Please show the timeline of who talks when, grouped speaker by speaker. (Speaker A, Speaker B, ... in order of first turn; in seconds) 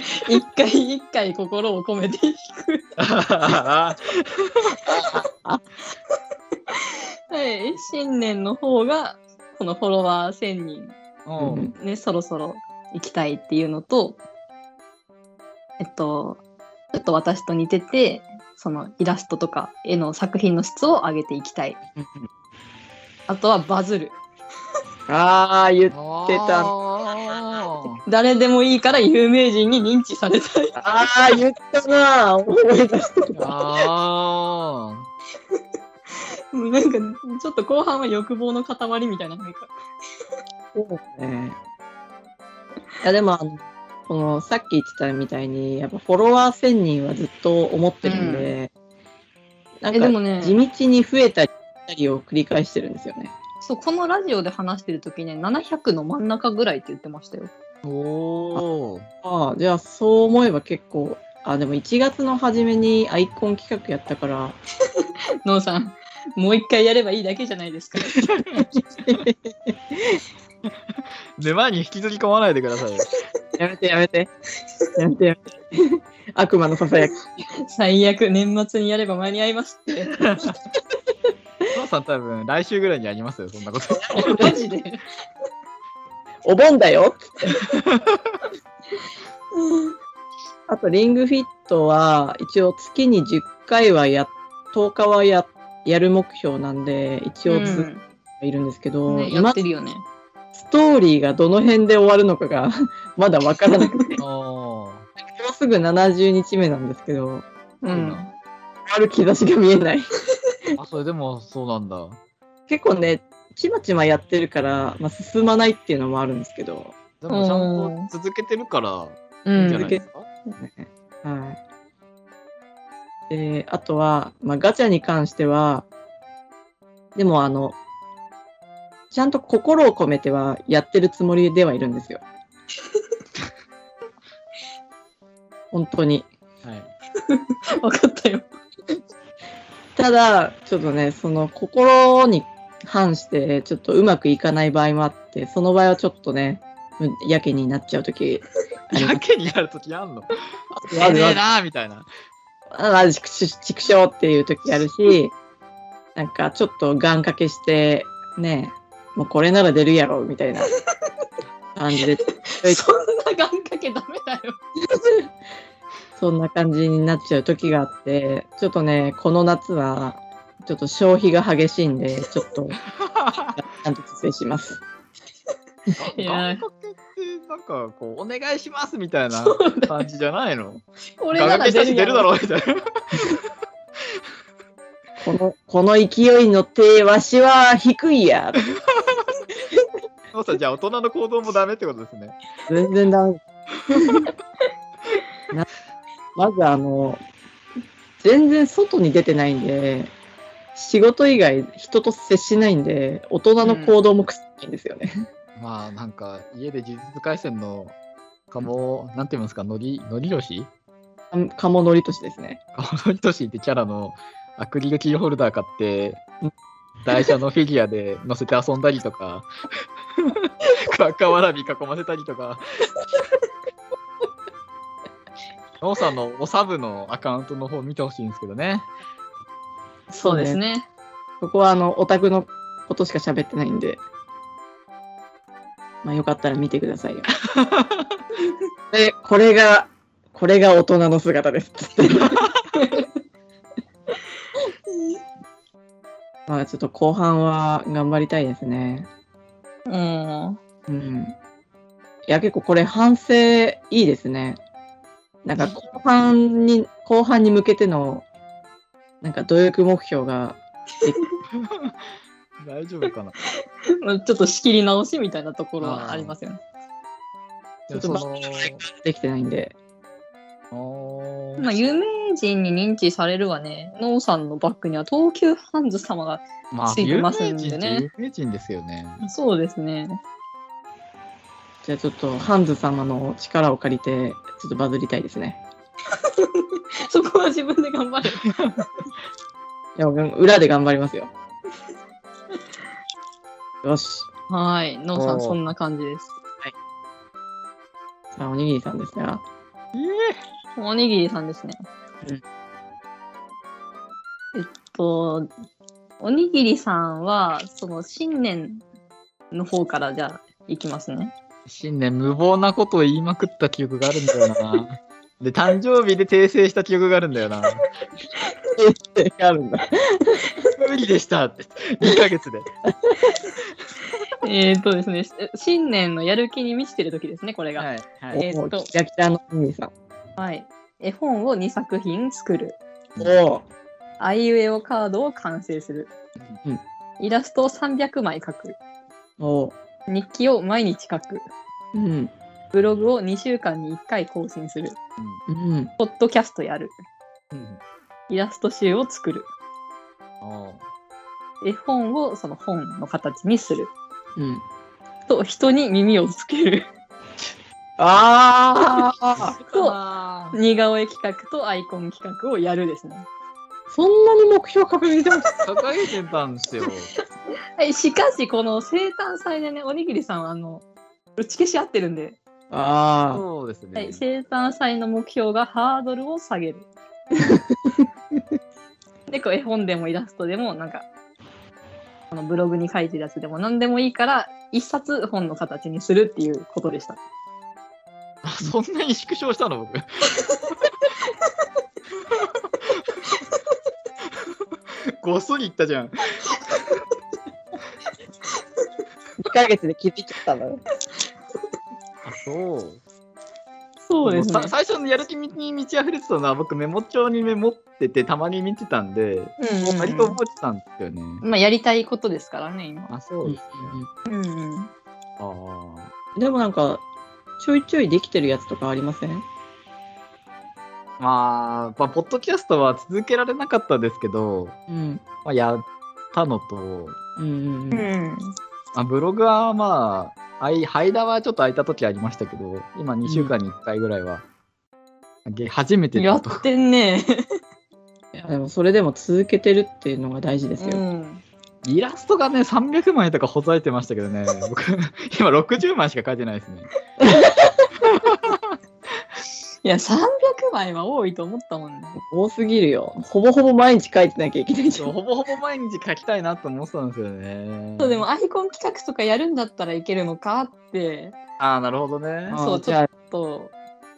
Speaker A: 0.2-2.9, 7.3-10.9, 11.7-14.2, 15.8-16.4, 16.9-21.8, 23.3-24.2, 28.1-30.8, 36.5-39.7, 48.0-48.5, 49.9-50.6, 53.6-57.5, 65.4-68.2, 77.7-80.3, 84.2-85.0, 89.5-90.0, 97.5-98.0, 99.1-100.0, 107.8-108.3, 117.3-118.1, 119.4-120.5, 137.3-138.5, 162.5-164.6, 176.0-176.6, 179.3-180.0, 181.2-182.3, 203.6-203.9, 230.1-230.9, 242.7-243.1, 249.8-250.6, 264.0-266.6, 271.6-278.1, 279.2-280.2, 286.2-288.8, 294.5-296.4, 300.8-301.8, 304.5-305.5, 306.2-308.8, 309.5-311.3, 324.4-328.9, 330.4-332.8, 334.2-336.1, 337.2-338.8, 340.1-341.4, 342.7-345.0, 346.0-346.9, 348.3-349.5, 351.6-353.9, 355.3-356.9, 359.7-360.0, 360.5-363.2, 367.8-370.8, 371.4-372.4, 373.9-376.9, 379.3-381.1, 382.3-387.2, 404.0-404.7, 409.6-410.4, 411.4-413.1, 414.3-414.9, 427.9-428.5, 436.1-437.4, 440.8-441.4, 449.8-452.2, 458.0-461.4, 462.6-463.7
Speaker B: 3.0-4.8, 11.2-11.7, 25.9-28.0, 33.4-35.1, 57.8-59.1, 68.0-68.7, 71.4-73.1, 80.0-80.5, 81.7-84.4, 87.8-88.4, 104.2-105.0, 107.9-108.2, 110.8-112.2, 117.2-120.2, 136.6-136.9, 148.9-150.3, 151.0-152.1, 173.0-173.6, 176.0-183.3, 190.3-192.4, 205.6-207.9, 208.5-210.7, 212.8-216.2, 217.0-219.5, 220.2-222.6, 225.8-228.9, 237.6-238.1, 255.6-256.0, 261.6-261.9, 262.6-263.3, 265.8-266.3, 267.9-268.8, 270.7-271.9, 276.7-279.2, 295.1-295.6, 299.9-300.4, 311.7-317.8, 320.8-322.7, 327.8-328.4, 347.5-347.8, 350.4-350.8, 359.4-360.6, 365.6-367.1, 373.3-374.2, 388.4-390.4, 395.2-396.5, 402.2-403.0, 404.2-411.4, 413.1-414.0, 415.4-416.1, 421.2-424.8, 425.4-427.2, 428.9-434.4, 435.4-436.6, 441.8-446.9, 448.0-448.8, 454.9-458.2, 461.6-462.6
Speaker C: 5.0-5.6, 11.4-11.7, 22.0-22.3, 25.1-26.7, 30.8-33.7, 40.7-41.6, 43.0-48.7, 49.8-53.3, 59.2-64.6, 69.0-70.2, 73.6-74.3, 75.0-77.2, 83.9-84.6, 86.4-87.5, 90.7-99.6, 100.5-104.2, 105.2-107.5, 108.9-110.1, 112.7-117.0, 119.5-120.0, 120.6-121.6, 123.3-125.9, 127.1-127.8, 129.1-132.2, 135.7-136.3, 139.9-149.2, 150.8-151.4, 152.7-155.3, 156.2-160.7, 161.8-162.8, 166.2-172.8, 173.6-174.8, 185.2-188.6, 192.7-194.3, 196.3-197.2, 198.2-200.1, 200.7-205.1, 211.3-212.6, 230.2-230.6, 231.4-234.0, 236.0-237.3, 238.9-242.4, 246.5-249.1, 250.9-251.3, 252.3-254.6, 255.4-258.2, 259.2-261.2, 267.9-269.7, 281.8-285.6, 289.9-291.3, 293.8-294.3, 298.3-299.4, 318.8-320.4, 322.8-323.3, 328.3-329.9, 333.2-333.6, 339.4-339.7, 341.9-342.3, 345.5-345.9, 354.4-354.6, 358.0-359.5, 363.9-365.5, 372.7-373.4, 399.4-400.8, 413.4-414.1, 416.4-417.0, 417.6-419.4, 424.9-425.2, 427.4-428.1, 433.2-433.5, 438.3-441.0, 447.2-447.8, 452.2-455.1, 462.5-463.1